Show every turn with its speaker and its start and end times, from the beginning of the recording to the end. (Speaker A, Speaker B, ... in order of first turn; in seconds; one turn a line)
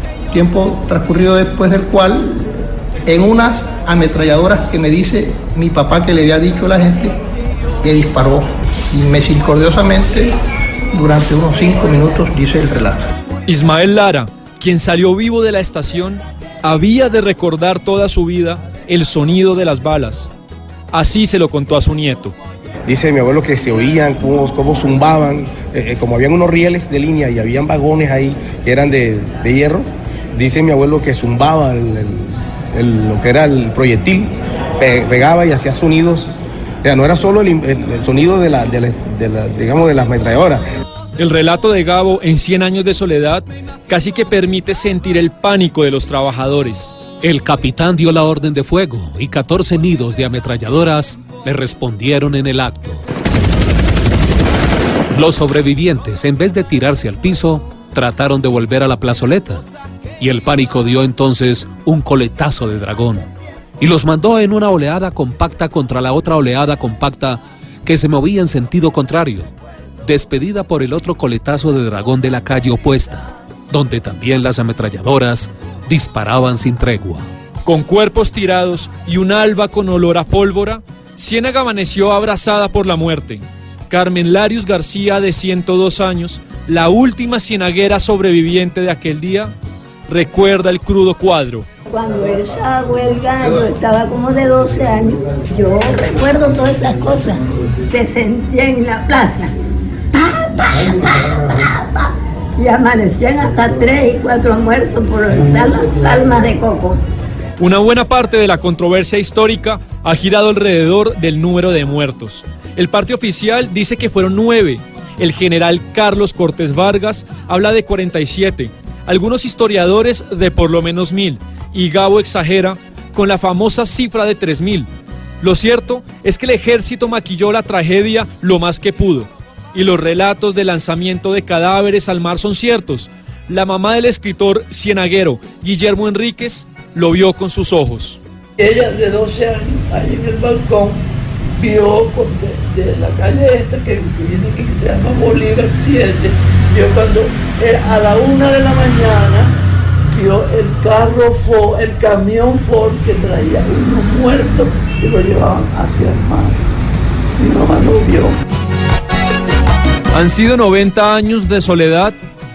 Speaker A: 0.3-7.1
Speaker A: 7.8-10.3
Speaker A: 10.9-13.1
Speaker B: 13.5-20.3
Speaker B: 20.9-22.3
Speaker C: 22.9-34.3
Speaker C: 34.8-36.3
Speaker C: 36.8-40.6
Speaker B: 41.2-46.9
Speaker D: 47.2-53.0
Speaker D: 55.1-59.6
Speaker D: 60.2-69.5
Speaker D: 70.0-77.3
Speaker B: 77.6-89.5
Speaker B: 90.1-91.7
Speaker E: 91.9-99.5
Speaker E: 100.1-107.0
Speaker B: 107.6-124.9
Speaker B: 125.4-138.2
Speaker F: 138.6-141.0
Speaker F: 141.6-149.5
Speaker F: 150.1-156.6
Speaker F: 157.4-158.3
Speaker B: 160.1-162.2